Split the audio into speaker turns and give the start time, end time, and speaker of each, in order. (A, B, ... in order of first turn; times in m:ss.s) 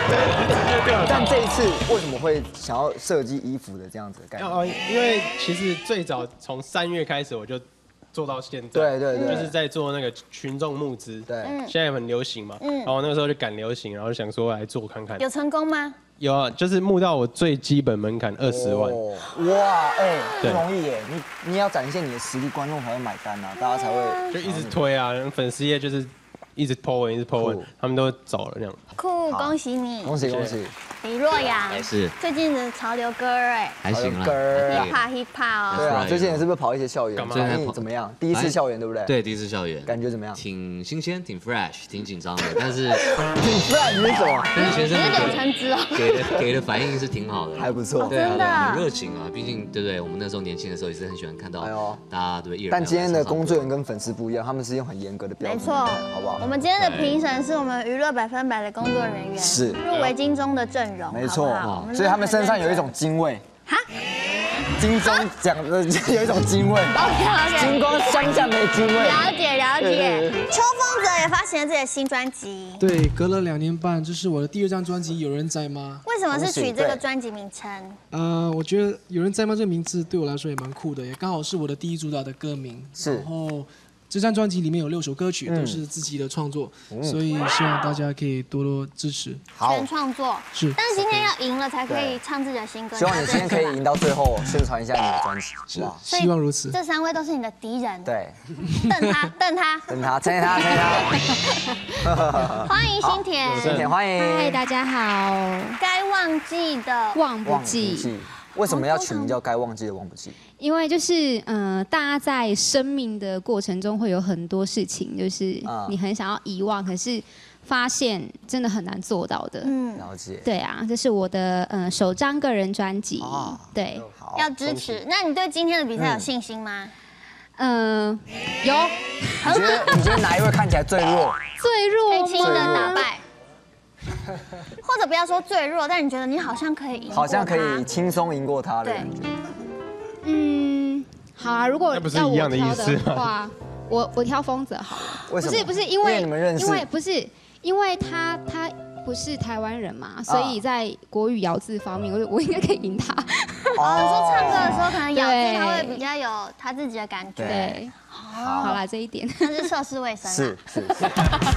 0:00.5-0:01.1 A
0:00.9-0:04.6 B
0:04.4-0:15.2 A
0:08.7-0:09.5 B
0:09.1-0:09.5 C
0:11.3-0:11.6 B
0:11.4-0:11.7 C
0:12.6-0:12.9 C
0:15.2-0:16.0 C
0:16.2-0:19.0 A
0:18.4-0:24.8 B
0:20.4-0:20.6 A
0:23.6-0:24.3 C
0:24.3-0:28.8 A
0:27.4-0:27.7 B
0:29.0-0:30.2 C
0:29.3-0:30.7 B
0:30.2-0:30.6 A
0:31.0-0:33.8 C
0:31.7-0:32.1 D
0:33.8-0:35.0 D
0:33.9-0:34.9 B
0:34.6-0:36.0 C
0:35.7-0:36.5 D
0:35.7-0:39.1 B
0:37.1-0:37.6 A
0:37.2-0:43.1 D
0:39.8-0:40.4 B
0:43.3-0:44.7 B
0:44.5-0:45.4 D
0:44.6-0:46.4 C
0:45.9-0:53.7 D
0:47.6-0:48.4 B
0:48.0-0:48.9 C
0:51.6-0:52.0 B
0:52.7-0:56.4 B
0:55.4-1:02.9 C
0:56.7-0:57.2 D
0:59.4-0:59.8 B
1:01.1-1:03.4 B
1:01.6-1:01.9 D
1:04.8-1:09.2 B
1:06.9-1:07.8 C
1:09.0-1:12.8 C
1:09.8-1:10.4 B
1:12.8-1:16.0 E
1:16.0-1:18.0 C
1:16.3-1:17.0 B
1:18.1-1:29.4 E
1:23.0-1:23.3 B
1:25.4-1:25.8 B
1:26.9-1:27.2 B
1:29.5-1:29.9 B
1:29.6-1:33.7 C
1:31.0-1:31.3 B
1:31.9-1:32.2 B
1:32.9-1:36.0 B
1:35.8-1:36.8 E
1:36.1-1:38.1 C
1:38.0-1:38.4 B
1:38.8-1:39.9 C
1:39.9-1:41.2 B
1:42.0-1:44.6 B
1:42.6-1:43.9 C
1:43.4-1:43.9 A
1:44.1-1:45.8 F
1:45.8-1:47.2 C
1:47.1-1:48.1 F
1:47.4-1:50.4 B
1:48.7-1:49.3 F
1:50.6-1:59.7 F
1:55.6-1:56.0 B
1:59.6-2:00.1 C
2:00.0-2:00.5 B
2:00.4-2:04.0 F
2:03.2-2:05.0 B
2:04.3-2:06.9 C
2:06.0-2:06.3 B
2:07.6-2:09.7 F
2:09.4-2:10.1 C
2:09.4-2:11.4 B
2:11.6-2:13.1 F
2:12.1-2:13.2 C
2:12.4-2:13.0 B
2:14.8-2:17.8 C
2:17.1-2:19.3 B
2:20.2-2:33.8 F
2:21.9-2:23.2 A
2:25.2-2:26.9 B
2:30.3-2:30.6 B
2:33.8-2:34.9 B
2:33.8-2:38.8 C
2:35.1-2:36.0 F
2:37.4-2:37.7 B
2:37.4-2:37.9 F
2:38.3-2:38.8 B
2:38.6-2:39.7 F
2:39.4-2:40.6 C
2:40.2-2:41.1 B